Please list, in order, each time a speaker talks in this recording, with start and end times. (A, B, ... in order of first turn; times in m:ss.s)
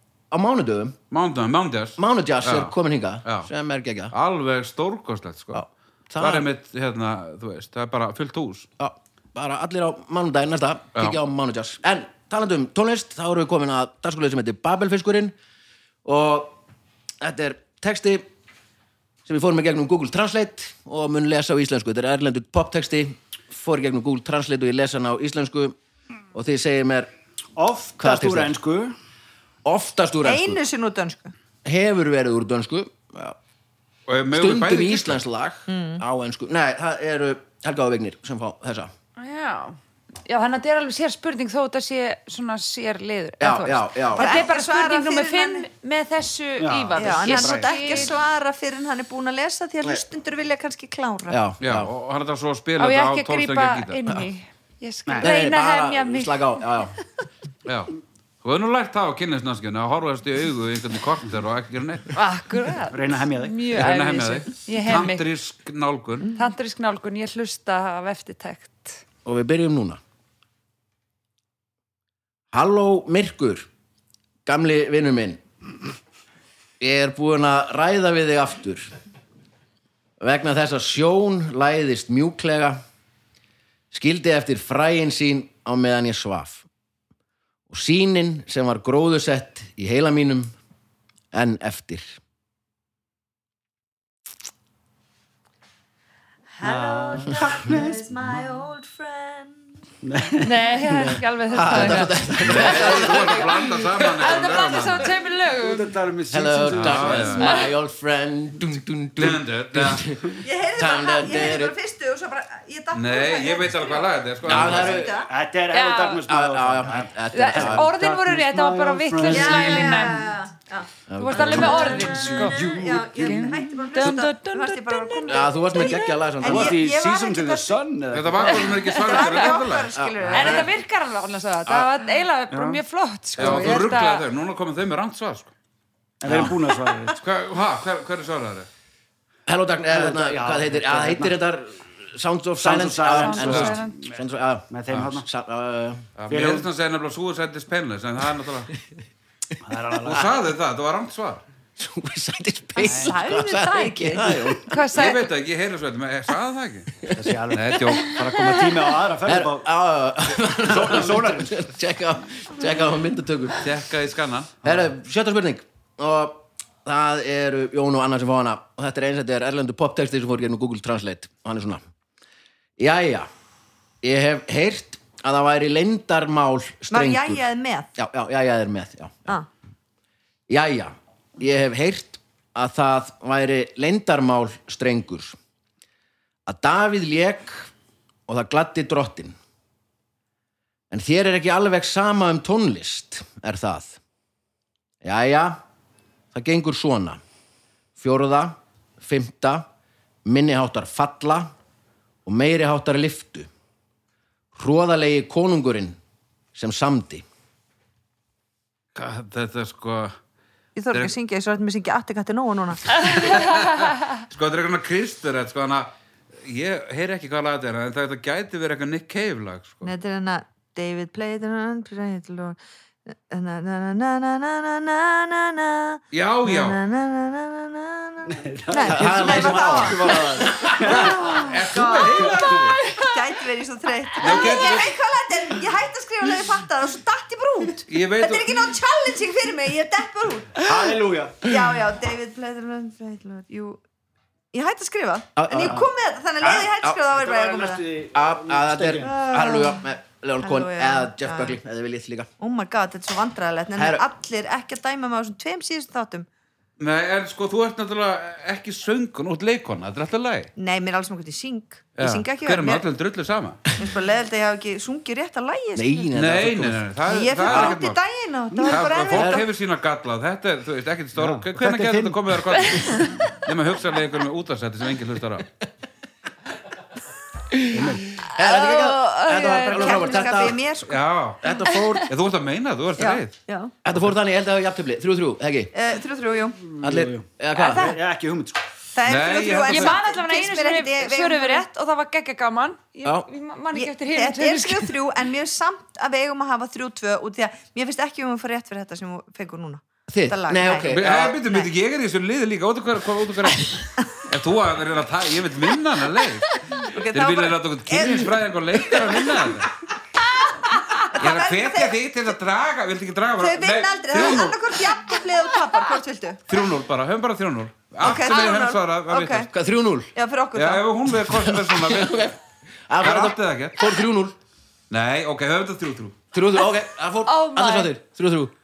0:00.3-0:01.0 A
0:01.1-0:02.7 B
0:02.0-0:04.1 A
0:03.2-0:03.5 B
0:04.1-0:05.6 B
0:05.5-0:06.5 A
0:06.2-0:08.7 B
0:08.8-0:15.3 A
0:16.0-0:16.6 A
0:17.2-0:18.3 A
0:19.3-0:25.8 A
0:26.3-0:27.1 A
0:27.6-0:28.9 C
0:28.0-0:28.6 A
0:29.6-0:30.6 A
0:30.2-0:31.3 D
0:31.6-0:33.4 A
0:34.1-0:35.2 B
0:34.3-0:38.9 A
0:35.7-0:36.0 D
0:39.2-0:48.1 E
0:43.4-0:44.4 A
0:44.1-0:45.7 D
0:46.6-0:48.0 C
0:47.0-0:51.4 D
0:51.3-0:51.9 A
0:51.6-0:54.0 B
0:52.8-0:56.5 E
0:55.1-0:55.3 C
0:55.2-0:57.0 A
0:57.7-1:02.2 B
1:02.1-1:05.2 E
1:02.9-1:03.8 C
1:03.8-1:06.3 B
1:06.4-1:09.0 E
1:09.2-1:10.0 A
1:12.5-1:13.7 A
1:14.5-1:15.4 A
1:16.8-1:18.9 A
1:20.2-1:22.8 A
1:23.9-1:26.7 A
1:27.7-1:30.5 A
1:31.3-1:32.2 A
1:36.6-1:39.7 D
1:36.6-1:38.0 C
1:40.0-1:41.2 C
1:40.4-1:42.2 E
1:41.5-1:44.4 A
1:42.4-1:45.1 B
1:44.2-1:46.0 E
1:45.5-1:47.5 C
1:46.3-1:51.8 A
1:46.7-1:47.6 B
1:47.4-1:47.6 E
1:49.2-1:50.1 B
1:50.4-1:55.3 D
1:52.9-1:55.0 B
1:54.4-1:55.2 A
1:55.3-2:00.2 C
1:55.7-1:56.2 E
1:56.3-1:57.9 A
1:57.3-2:00.3 E
1:59.3-2:07.8 D
2:01.1-2:02.1 A
2:01.2-2:06.2 E
2:01.5-2:03.6 C
2:05.3-2:06.8 A
2:06.4-2:08.7 C
2:08.1-2:09.9 B
2:08.5-2:09.5 E
2:08.5-2:10.7 D
2:09.9-2:10.7 A
2:10.3-2:14.2 E
2:12.5-2:12.8 C
2:13.4-2:15.5 B
2:16.2-2:17.2 C
2:16.2-2:16.5 A
2:17.2-2:18.7 B
2:19.5-2:26.1 A
2:19.9-2:21.4 C
2:22.6-2:24.2 C
2:23.1-2:24.0 E
2:24.7-2:25.3 C
2:26.2-2:28.7 B
2:26.3-2:26.7 C
2:29.6-2:30.4 C
2:30.0-2:31.4 B
2:31.8-2:34.8 A
2:32.8-2:34.5 D
2:32.9-2:33.1 C
2:34.7-2:35.2 E
2:35.0-2:37.0 B
2:37.1-2:39.7 C
2:37.5-2:38.2 B
2:39.2-2:43.7 A
2:40.6-2:41.6 C
2:43.6-2:44.6 B
2:44.6-2:51.8 A
2:52.8-2:53.3 A
2:54.0-2:57.4 A
2:56.9-2:57.9 D
2:58.0-2:59.4 A
3:00.5-3:05.4 A
3:06.5-3:07.7 A
3:08.3-3:09.4 A
3:10.9-3:14.0 A
3:15.0-3:15.6 A
3:16.3-3:17.2 A
3:18.0-3:19.6 A
3:20.2-3:21.5 A
3:22.2-3:23.5 A
3:24.6-3:26.0 A
3:26.6-3:27.2 A
3:29.0-3:30.2 B
3:30.8-3:33.3 D
3:33.0-3:35.9 B
3:36.4-3:39.9 B
3:39.8-3:42.6 D
3:43.1-4:00.6 D
3:46.1-3:46.8 B
3:48.3-3:52.8 C
3:48.9-3:51.1 A
3:51.4-3:52.9 B
3:54.2-3:55.0 B
3:57.9-3:58.7 B
4:00.6-4:01.5 C
4:01.4-4:03.8 D
4:04.5-4:07.8 D
4:05.4-4:05.9 A
4:05.6-4:05.9 C
4:06.4-4:09.2 C
4:08.1-4:12.3 A
4:09.0-4:09.8 D
4:10.4-4:11.6 D
4:12.4-4:16.3 D
4:13.8-4:14.0 A
4:16.8-4:20.5 B
4:20.6-4:22.8 D
4:22.0-4:23.6 B
4:23.8-4:26.1 D
4:25.8-4:26.9 A
4:26.1-4:28.0 B
4:27.1-4:29.5 D
4:27.5-4:27.8 A
4:28.5-4:28.9 C
4:28.7-4:35.5 B
4:29.1-4:29.5 A
4:31.6-4:32.8 A
4:37.5-4:40.6 A
4:37.7-4:38.2 C
4:38.5-4:40.4 E
4:39.7-4:41.0 D
4:40.8-4:41.4 B
4:41.4-4:42.1 A
4:41.7-4:42.0 E
4:42.1-4:43.4 B
4:43.0-4:43.7 D
4:43.8-4:45.7 A
4:45.7-4:46.6 D
4:46.7-4:48.6 C
4:46.8-4:47.9 A
4:47.7-4:48.0 D
4:48.9-4:51.6 D
4:49.0-4:50.0 B
4:49.7-4:55.0 E
4:53.0-4:53.3 A
4:53.7-5:01.7 D
5:00.1-5:01.4 A
5:00.9-5:09.7 B
5:06.7-5:08.3 D
5:08.9-5:09.3 D
5:10.4-5:12.0 D
5:11.1-5:14.7 B
5:13.4-5:16.4 D
5:16.5-5:19.5 B
5:18.0-5:19.5 D
5:19.5-5:20.1 A
5:20.2-5:20.8 D
5:20.5-5:22.4 B
5:21.3-5:22.4 A
5:22.9-5:24.4 A
5:23.0-5:23.8 B
5:24.9-5:26.2 B
5:26.3-5:28.5 A
5:27.2-5:27.9 E